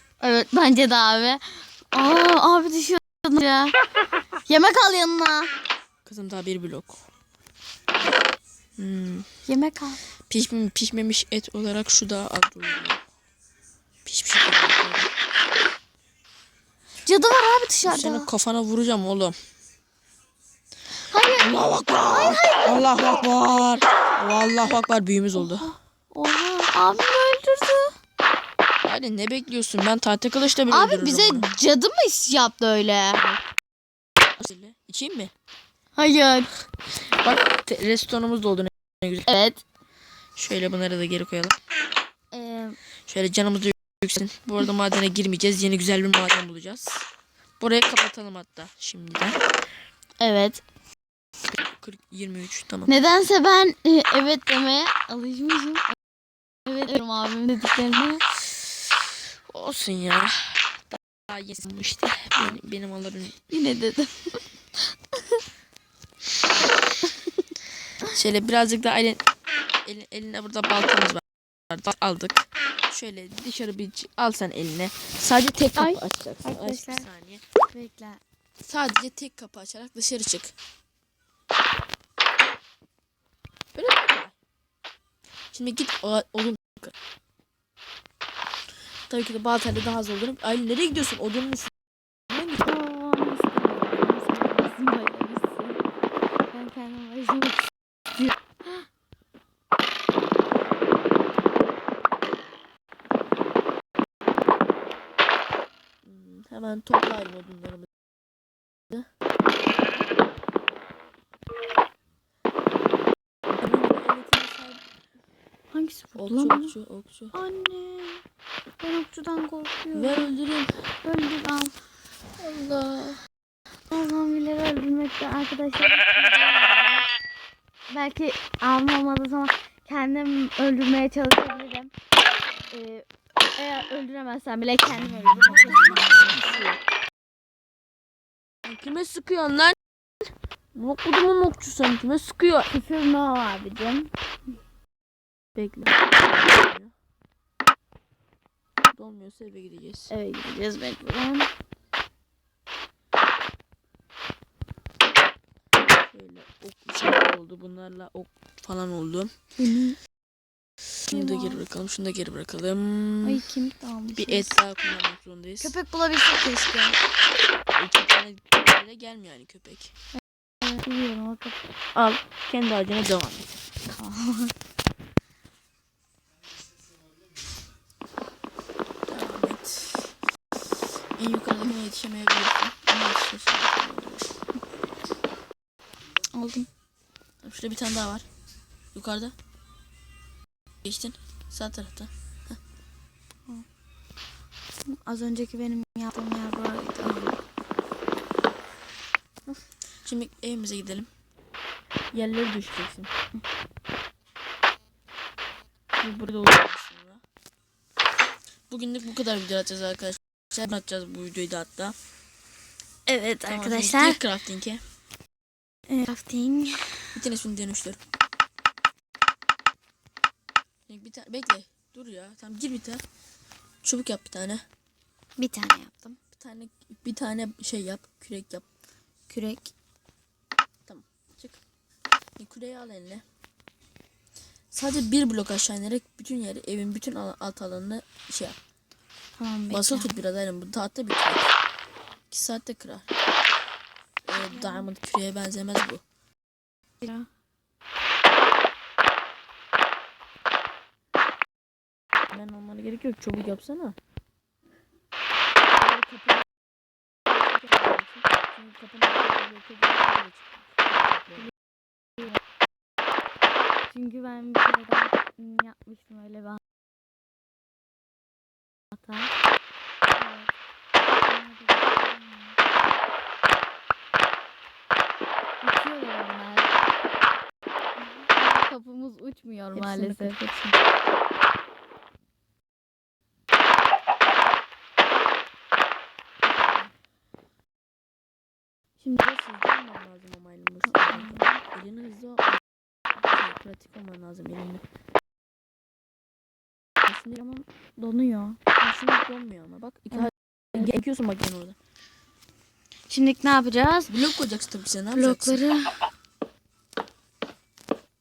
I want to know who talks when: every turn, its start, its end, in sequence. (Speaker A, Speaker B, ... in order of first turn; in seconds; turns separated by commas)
Speaker A: 0.2-3.8, Speaker A: 4.5-5.5, Speaker B: 6.0-7.0, Speaker B: 8.8-9.3, Speaker A: 9.5-10.0, Speaker B: 10.3-13.0, Speaker B: 14.1-15.1, Speaker A: 17.0-18.3, Speaker B: 17.9-19.4, Speaker A: 21.1-23.5, Speaker B: 21.3-25.7, Speaker A: 25.4-27.9, Speaker B: 28.8-31.5, Speaker A: 30.7-33.2, Speaker B: 33.1-33.4, Speaker B: 34.4-35.3, Speaker A: 36.0-36.5, Speaker B: 37.1-39.3, Speaker A: 39.3-39.6, Speaker B: 40.4-41.6, Speaker A: 42.3-42.8, Speaker B: 43.1-47.1, Speaker B: 47.6-49.4, Speaker A: 50.2-50.6, Speaker B: 51.5-52.9, Speaker A: 52.9-55.9, Speaker A: 56.7-58.3, Speaker B: 59.5-63.4, Speaker A: 63.5-64.4, Speaker B: 68.1-69.2, Speaker B: 69.8-77.4, Speaker A: 75.8-77.1, Speaker A: 77.7-78.2, Speaker B: 78.6-80.5, Speaker B: 83.8-84.3, Speaker B: 85.5-86.9, Speaker B: 89.1-91.7, Speaker B: 92.3-92.7, Speaker A: 92.6-95.8, Speaker A: 96.5-98.9, Speaker B: 106.0-107.9, Speaker B: 113.5-114.8, Speaker A: 115.7-116.8, Speaker B: 116.2-117.3, Speaker A: 117.3-118.2, Speaker A: 118.8-120.3, Speaker B: 119.9-120.9, Speaker A: 121.0-121.8, Speaker B: 122.4-123.2, Speaker A: 123.9-126.6, Speaker A: 127.9-131.9, Speaker A: 132.7-136.4, Speaker B: 135.4-136.8, Speaker B: 138.6-139.8, Speaker B: 140.7-142.7, Speaker A: 142.7-144.1, Speaker B: 145.6-146.9, Speaker B: 148.9-150.1, Speaker A: 150.1-151.5, Speaker B: 156.0-159.3, Speaker A: 159.6-160.0, Speaker B: 161.1-163.4, Speaker A: 161.1-161.6, Speaker A: 163.2-164.5, Speaker B: 164.2-165.7, Speaker A: 165.6-167.0, Speaker B: 167.7-169.9, Speaker A: 170.6-171.6, Speaker B: 171.9-173.6, Speaker A: 173.9-174.5, Speaker B: 179.1-180.1, Speaker B: 181.1-184.3, Speaker A: 186.3-186.7, Speaker B: 187.4-188.3, Speaker B: 188.9-189.3, Speaker B: 190.8-192.6, Speaker A: 194.9-197.4, Speaker B: 199.5-201.1, Speaker B: 202.1-203.1, Speaker B: 206.0-207.2, Speaker B: 208.7-211.9, Speaker A: 213.1-214.2, Speaker B: 213.5-214.8, Speaker A: 215.9-217.2, Speaker B: 217.2-218.0, Speaker B: 220.9-223.0, Speaker B: 223.8-224.7, Speaker A: 225.4-226.2, Speaker B: 226.3-228.7, Speaker A: 229.3-229.7, Speaker B: 230.9-231.6, Speaker B: 232.4-233.2, Speaker B: 234.7-238.6, Speaker A: 239.4-240.1, Speaker B: 239.7-241.5, Speaker B: 242.3-243.1, Speaker B: 244.3-246.0, Speaker A: 244.4-244.9, Speaker A: 247.0-247.3, Speaker B: 252.3-254.0, Speaker B: 255.7-256.4, Speaker B: 257.3-261.5, Speaker A: 263.9-266.6, Speaker A: 268.9-269.3, Speaker A: 270.1-270.5, Speaker A: 271.2-272.6, Speaker A: 275.6-276.7, Speaker A: 278.0-280.8, Speaker B: 279.7-280.4, Speaker B: 286.5-286.9, Speaker B: 289.0-292.6, Speaker A: 290.9-291.6, Speaker B: 293.1-294.8, Speaker B: 297.1-297.4, Speaker A: 297.4-298.6, Speaker B: 298.8-301.8, Speaker A: 300.1-300.9, Speaker A: 303.1-304.1, Speaker B: 304.1-305.6, Speaker A: 305.1-305.9